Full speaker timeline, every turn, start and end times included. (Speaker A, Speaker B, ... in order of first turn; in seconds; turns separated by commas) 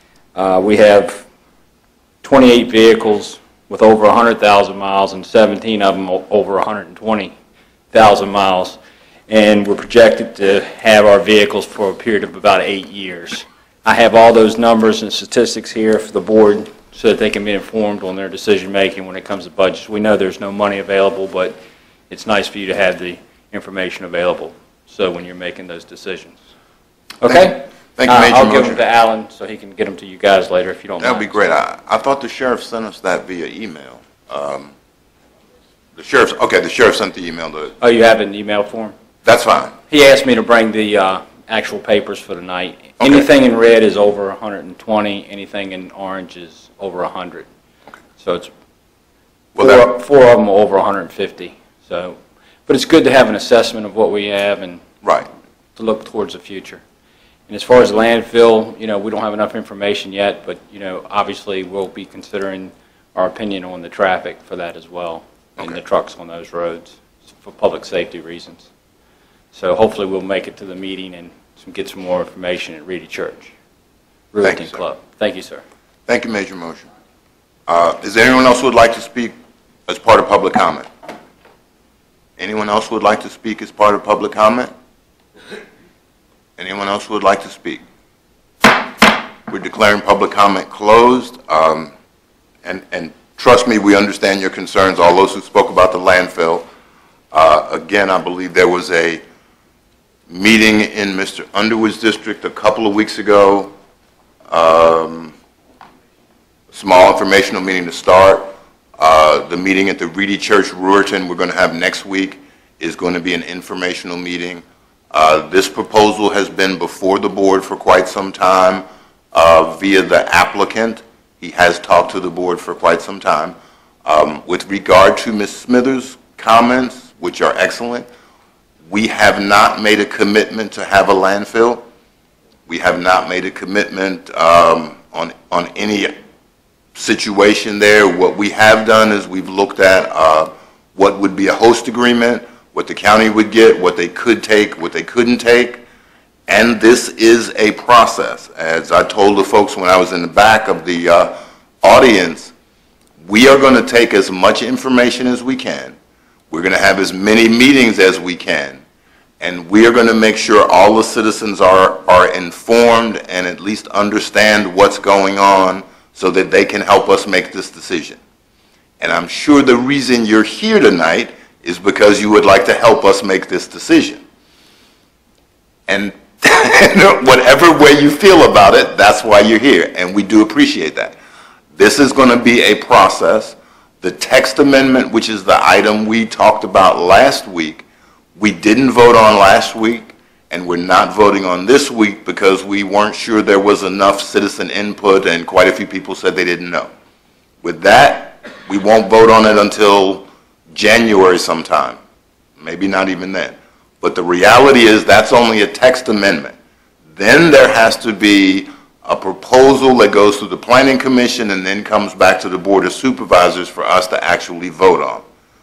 Speaker A: 0.3-1.2, Speaker A: 2.2-7.3, Speaker A: 7.9-21.6, Speaker A: 22.1-26.4, Speaker A: 27.2-31.3, Speaker B: 27.2-28.9, Speaker B: 31.0-34.7, Speaker B: 35.9-37.7, Speaker A: 37.8-38.9, Speaker B: 39.2-39.7, Speaker A: 39.9-47.5, Speaker B: 43.0-43.3, Speaker A: 48.2-48.5, Speaker B: 49.5-49.9, Speaker A: 49.6-54.8, Speaker B: 55.0-55.3, Speaker A: 55.8-56.8, Speaker A: 57.5-68.7, Speaker A: 69.5-73.5, Speaker A: 74.3-75.6, Speaker B: 74.4-74.8, Speaker B: 76.1-76.9, Speaker B: 77.7-79.3, Speaker B: 79.9-80.9, Speaker B: 82.4-84.7, Speaker B: 86.6-87.8, Speaker B: 89.5-91.9, Speaker B: 92.6-96.7, Speaker B: 97.3-99.2, Speaker B: 100.3-103.7, Speaker B: 104.5-105.3, Speaker B: 106.7-128.1, Speaker B: 128.9-131.8, Speaker B: 132.7-136.1, Speaker B: 136.9-145.8, Speaker B: 146.5-152.5, Speaker B: 153.2-155.9, Speaker B: 156.5-158.8, Speaker B: 159.4-168.2, Speaker B: 169.0-174.2, Speaker B: 175.9-181.2, Speaker B: 181.7-187.8, Speaker B: 188.4-196.9, Speaker B: 197.6-202.0, Speaker B: 202.6-206.5, Speaker B: 207.2-215.2